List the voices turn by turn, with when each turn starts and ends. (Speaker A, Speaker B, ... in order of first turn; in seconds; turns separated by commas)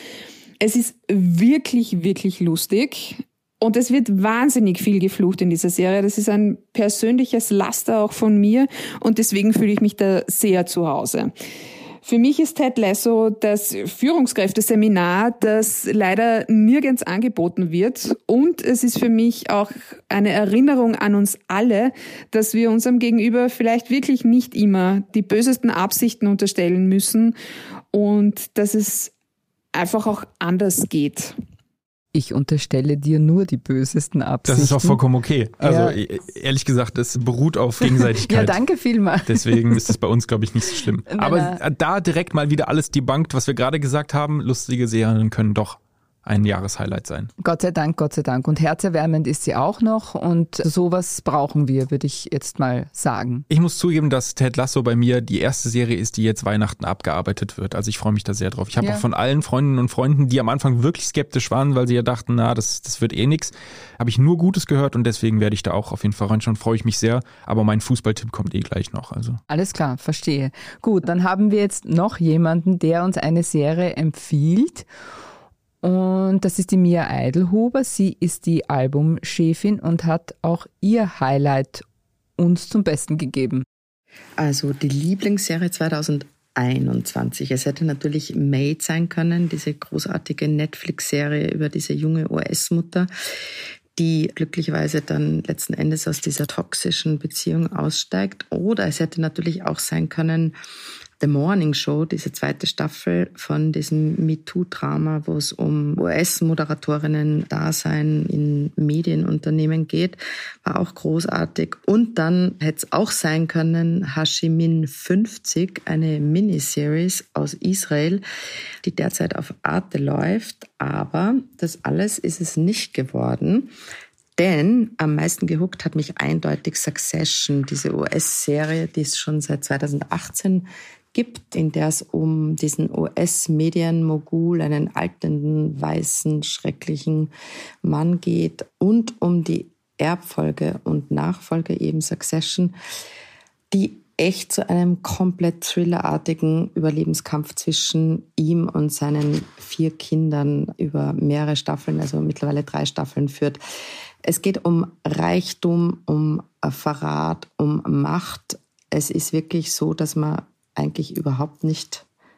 Speaker A: 0.6-11.3, Speaker A: 12.0-27.3, Speaker A: 27.9-29.1, Speaker A: 29.7-31.3, Speaker B: 32.1-35.0, Speaker C: 34.5-38.6, Speaker B: 35.6-36.0, Speaker B: 37.8-39.9, Speaker C: 39.2-47.3, Speaker B: 41.0-41.6, Speaker B: 47.4-53.4, Speaker C: 53.5-69.4, Speaker B: 58.8-59.0, Speaker B: 69.5-74.9, Speaker B: 75.8-81.8, Speaker B: 82.4-83.6, Speaker D: 84.4-93.1, Speaker D: 94.0-100.5, Speaker D: 101.2-118.2, Speaker D: 118.8-123.7, Speaker D: 124.4-137.3, Speaker D: 137.8-142.8, Speaker D: 143.7-153.6, Speaker D: 154.2-162.0